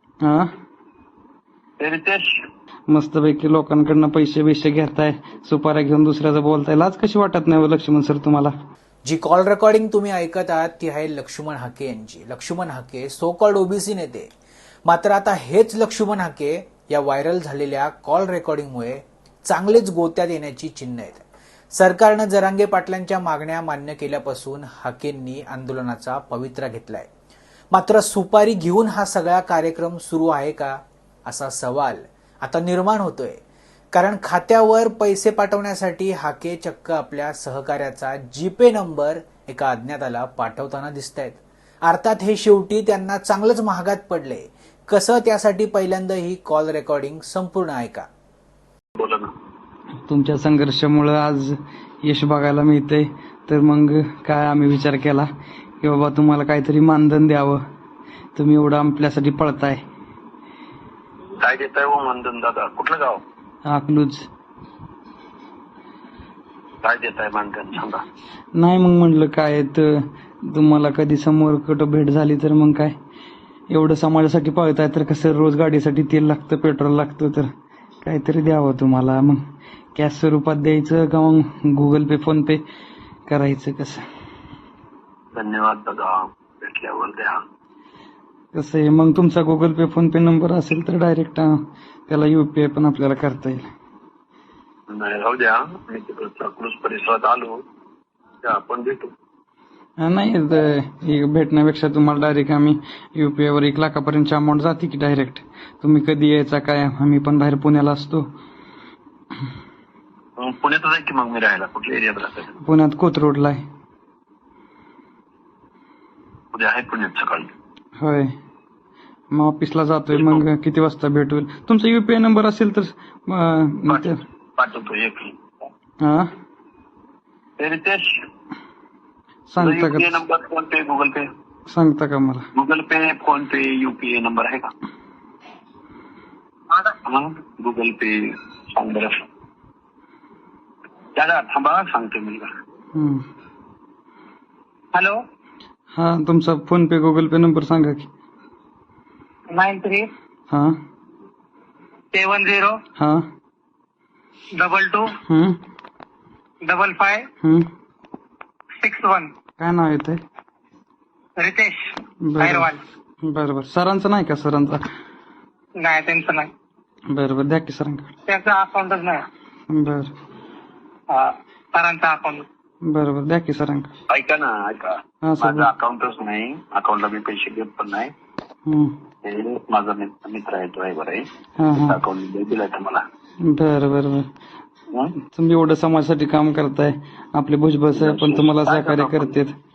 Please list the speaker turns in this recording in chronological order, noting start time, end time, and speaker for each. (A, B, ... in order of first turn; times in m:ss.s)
0:00.2-0:00.5 A
0:01.8-0:02.2 B
0:02.9-0:08.5 A
0:09.1-0:14.3 C
0:14.9-0:27.1 C
0:27.7-0:33.4 C
0:33.9-0:48.1 C
0:49.0-0:49.3 B
0:50.1-0:55.3 A
0:55.8-0:57.6 A
0:58.3-0:59.8 A
1:01.4-1:03.2 B
1:03.6-1:04.2 A
1:06.8-1:08.0 B
1:08.5-1:12.9 A
1:13.7-1:17.5 A
1:18.0-1:19.4 A
1:19.9-1:22.6 A
1:23.3-1:24.0 A
1:25.3-1:27.4 B
1:28.5-1:33.6 A
1:34.9-1:37.6 B
1:38.4-1:39.1 B
1:40.0-1:48.2 A
1:50.4-1:52.5 B
1:52.6-1:53.6 A
1:56.5-1:57.5 B
1:58.0-1:58.3 A
1:59.3-2:04.2 A
2:00.1-2:00.4 B
2:03.9-2:05.3 B
2:06.0-2:06.3 A
2:07.6-2:08.1 B
2:09.5-2:10.2 A
2:09.6-2:11.2 B
2:11.7-2:12.4 A
2:12.5-2:14.7 B
2:17.0-2:18.2 B
2:18.7-2:19.1 B
2:21.2-2:22.5 B
2:22.9-2:23.2 A
2:24.9-2:25.2 D
2:25.9-2:28.1 A
2:29.5-2:30.1 D
2:30.5-2:30.7 A
2:32.1-2:32.8 D
2:33.0-2:33.2 A
2:34.6-2:35.1 D
2:35.2-2:35.6 A
2:36.6-2:37.3 D
2:37.4-2:37.7 A
2:38.8-2:39.3 D
2:39.6-2:40.2 A
2:41.4-2:42.8 D
2:42.2-2:42.7 A
2:43.2-2:44.8 A
2:45.8-2:46.5 D
2:47.1-2:48.1 A
2:48.3-2:49.2 D
2:49.7-2:50.1 A
2:51.1-2:52.4 D
2:52.8-2:53.9 A
2:54.1-2:58.1 B
2:55.2-2:55.7 A
2:58.6-2:59.0 A
2:59.2-3:03.0 B
3:01.6-3:02.0 A
3:03.4-3:04.3 A
3:05.3-3:09.6 A
3:08.0-3:09.3 B